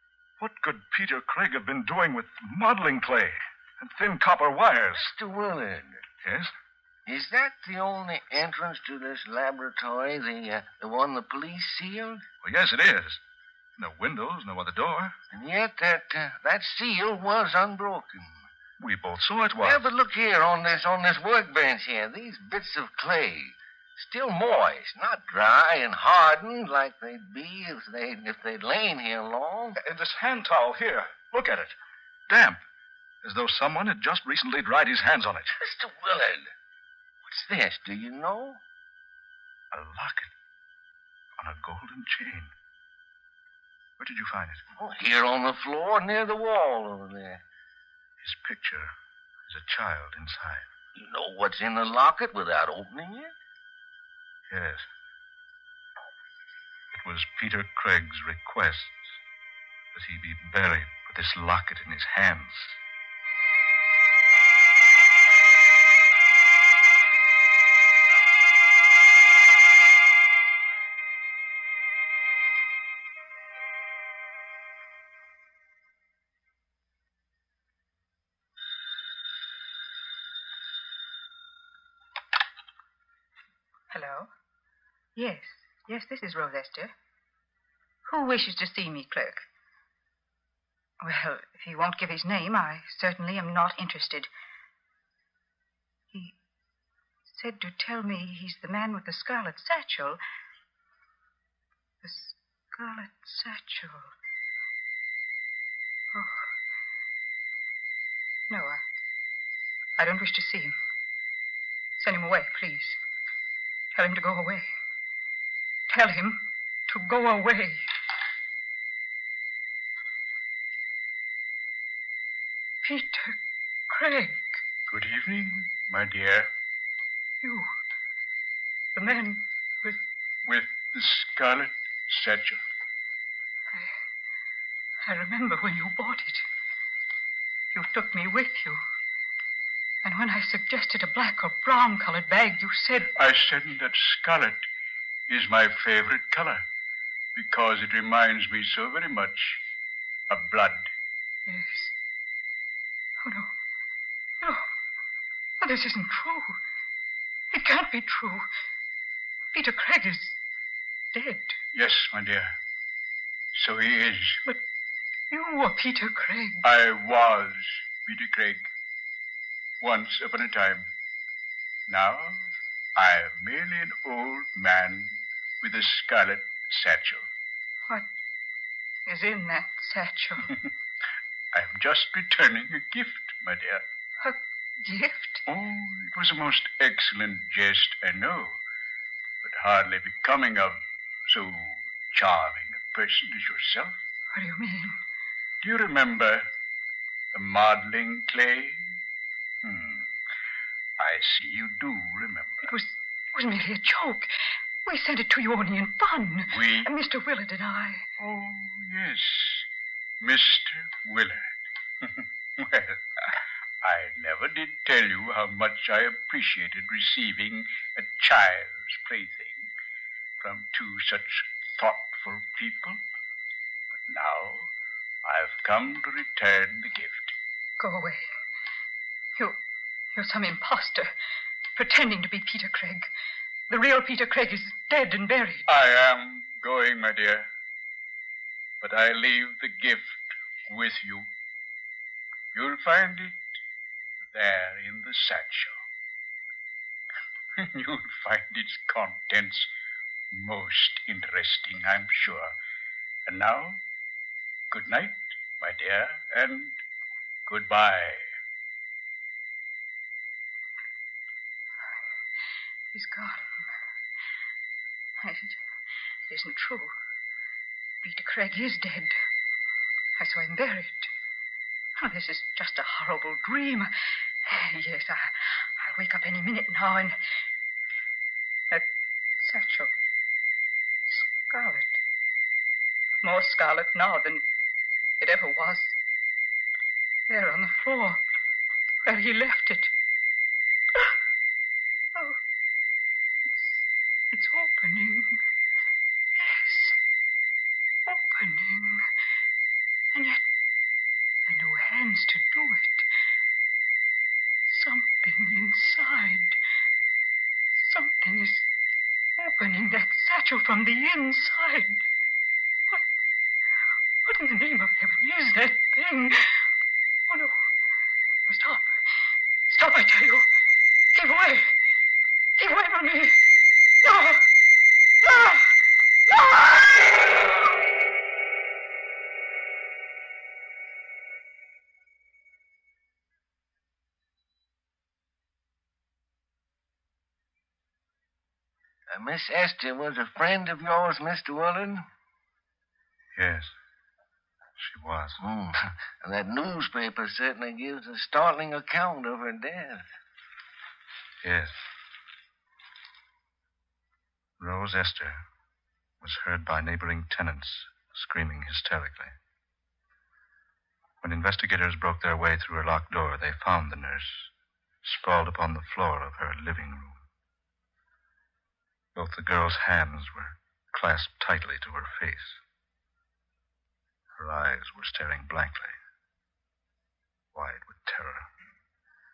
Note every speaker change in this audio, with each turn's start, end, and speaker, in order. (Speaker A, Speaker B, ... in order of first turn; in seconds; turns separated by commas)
Speaker A: 0.4-5.1, Speaker B: 4.9-6.0, Speaker A: 6.2-6.5, Speaker B: 7.1-12.2, Speaker A: 12.4-13.2, Speaker A: 13.8-15.2, Speaker B: 15.3-18.4, Speaker A: 18.8-19.8, Speaker B: 19.6-29.8, Speaker A: 29.8-31.7, Speaker A: 32.3-32.6, Speaker A: 33.2-35.5, Speaker B: 35.6-36.5, Speaker B: 37.2-38.6, Speaker A: 39.7-40.3, Speaker A: 41.4-42.5, Speaker A: 44.0-44.6, Speaker B: 44.8-47.4, Speaker A: 48.2-48.9, Speaker A: 49.4-50.7, Speaker B: 51.0-53.3, Speaker A: 54.5-54.9, Speaker A: 56.9-59.2, Speaker A: 59.9-62.8, Speaker C: 83.9-84.3, Speaker C: 85.1-86.9, Speaker C: 88.0-89.5, Speaker C: 91.0-94.3, Speaker C: 97.3-100.2, Speaker C: 102.0-104.1, Speaker C: 106.1-106.5, Speaker C: 108.5-108.8, Speaker C: 110.0-110.8, Speaker C: 112.0-113.0, Speaker C: 113.9-114.7, Speaker C: 115.9-117.8, Speaker C: 122.8-124.6, Speaker D: 124.9-126.5, Speaker C: 127.4-127.7, Speaker C: 128.9-130.0, Speaker D: 130.4-132.6, Speaker C: 135.0-136.4, Speaker C: 137.7-138.8, Speaker C: 140.0-143.1, Speaker D: 143.2-144.7, Speaker D: 145.3-146.6, Speaker D: 147.3-149.6, Speaker D: 150.3-150.9, Speaker C: 151.5-151.9, Speaker C: 153.2-153.5, Speaker C: 154.4-154.7, Speaker C: 155.6-156.6, Speaker C: 157.5-158.5, Speaker C: 159.5-160.4, Speaker C: 161.1-161.6, Speaker D: 161.7-162.5, Speaker D: 163.5-164.4, Speaker C: 165.3-166.7, Speaker D: 166.6-168.7, Speaker D: 169.8-170.9, Speaker D: 171.9-177.3, Speaker C: 179.1-180.6, Speaker D: 181.5-183.8, Speaker C: 184.2-185.4, Speaker D: 185.5-188.6, Speaker D: 189.4-194.0, Speaker C: 194.3-195.0, Speaker D: 195.6-196.5, Speaker D: 197.3-199.0, Speaker D: 199.6-200.1, Speaker D: 201.0-202.7, Speaker C: 202.6-204.3, Speaker C: 204.8-208.1, Speaker D: 206.5-206.9, Speaker D: 208.2-209.7, Speaker D: 210.2-219.7, Speaker D: 220.4-223.0, Speaker D: 223.9-224.7, Speaker D: 225.2-227.3, Speaker C: 227.8-228.3, Speaker C: 230.1-231.1, Speaker C: 231.7-233.1, Speaker C: 233.7-235.7, Speaker D: 235.7-237.5, Speaker D: 238.8-241.3, Speaker D: 242.5-243.5, Speaker D: 244.3-245.8, Speaker D: 247.6-249.7, Speaker D: 250.3-252.5, Speaker D: 253.2-253.8, Speaker D: 254.7-256.8, Speaker D: 257.4-258.3, Speaker C: 262.9-263.5, Speaker C: 265.2-265.6, Speaker C: 266.3-266.9, Speaker C: 268.0-269.1, Speaker C: 270.2-271.1, Speaker C: 272.0-273.9, Speaker C: 274.4-277.2, Speaker C: 279.4-279.9, Speaker C: 281.1-282.0, Speaker C: 283.2-284.4, Speaker C: 285.2-285.9, Speaker C: 287.3-288.2, Speaker C: 289.0-289.9, Speaker C: 293.5-295.4, Speaker C: 296.4-296.9, Speaker C: 298.0-299.1, Speaker C: 300.1-300.4, Speaker C: 301.4-303.1, Speaker C: 304.7-306.6, Speaker C: 307.8-308.7, Speaker C: 309.4-312.0, Speaker C: 314.2-316.6, Speaker C: 317.3-317.7, Speaker C: 318.5-318.9, Speaker C: 319.7-320.5, Speaker C: 321.1-321.7, Speaker C: 322.6-323.4, Speaker C: 324.0-324.4, Speaker C: 325.2-325.7, Speaker C: 326.3-327.4, Speaker B: 339.1-342.0, Speaker A: 343.4-343.7, Speaker A: 344.8-345.4, Speaker B: 345.4-350.1, Speaker A: 351.4-351.8, Speaker A: 354.6-355.4, Speaker A: 356.2-359.3, Speaker A: 361.2-364.5, Speaker A: 365.0-367.2, Speaker A: 369.1-372.6, Speaker A: 374.4-376.0, Speaker A: 377.5-378.5